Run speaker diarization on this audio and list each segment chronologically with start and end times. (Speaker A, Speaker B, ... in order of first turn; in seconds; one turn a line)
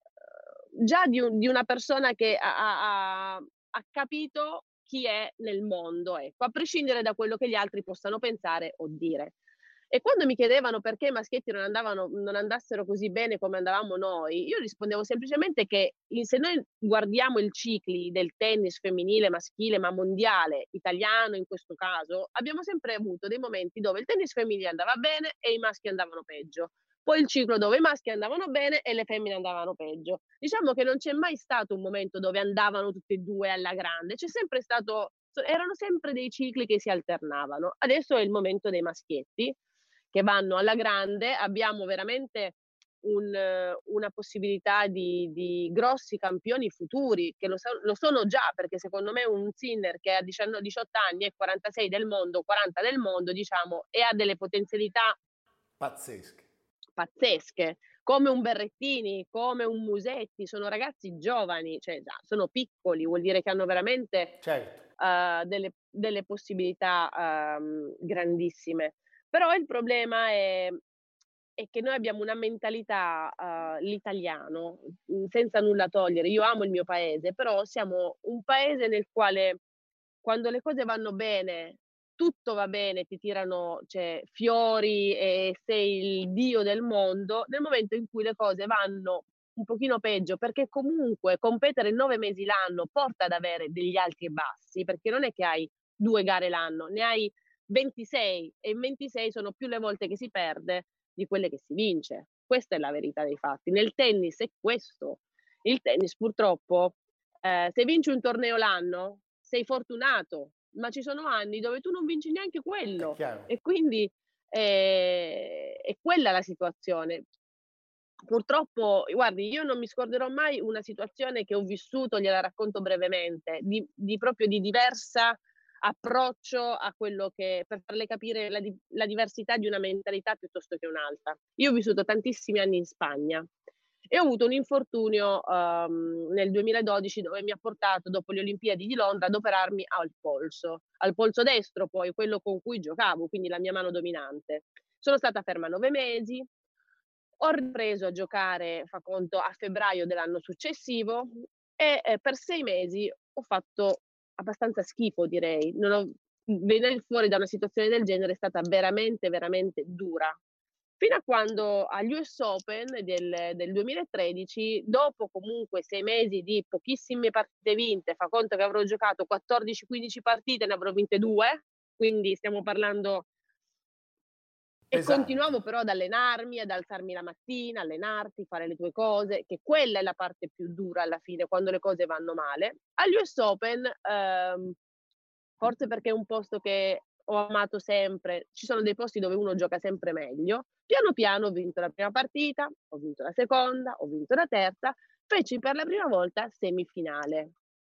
Speaker A: 0.8-9.3
Speaker A: 9.9-39.5
Speaker A: 40.1-55.1
Speaker B: 55.8-56.5
Speaker A: 57.0-64.4
Speaker B: 64.4-64.8
Speaker A: 65.0-70.8
Speaker A: 71.6-79.6
Speaker A: 80.2-117.2
Speaker B: 113.0-113.5
Speaker A: 118.2-133.5
Speaker A: 134.1-146.5
Speaker A: 147.4-160.4
Speaker A: 161.0-173.3
Speaker B: 174.9-175.5
Speaker A: 174.9-184.8
Speaker A: 185.6-197.5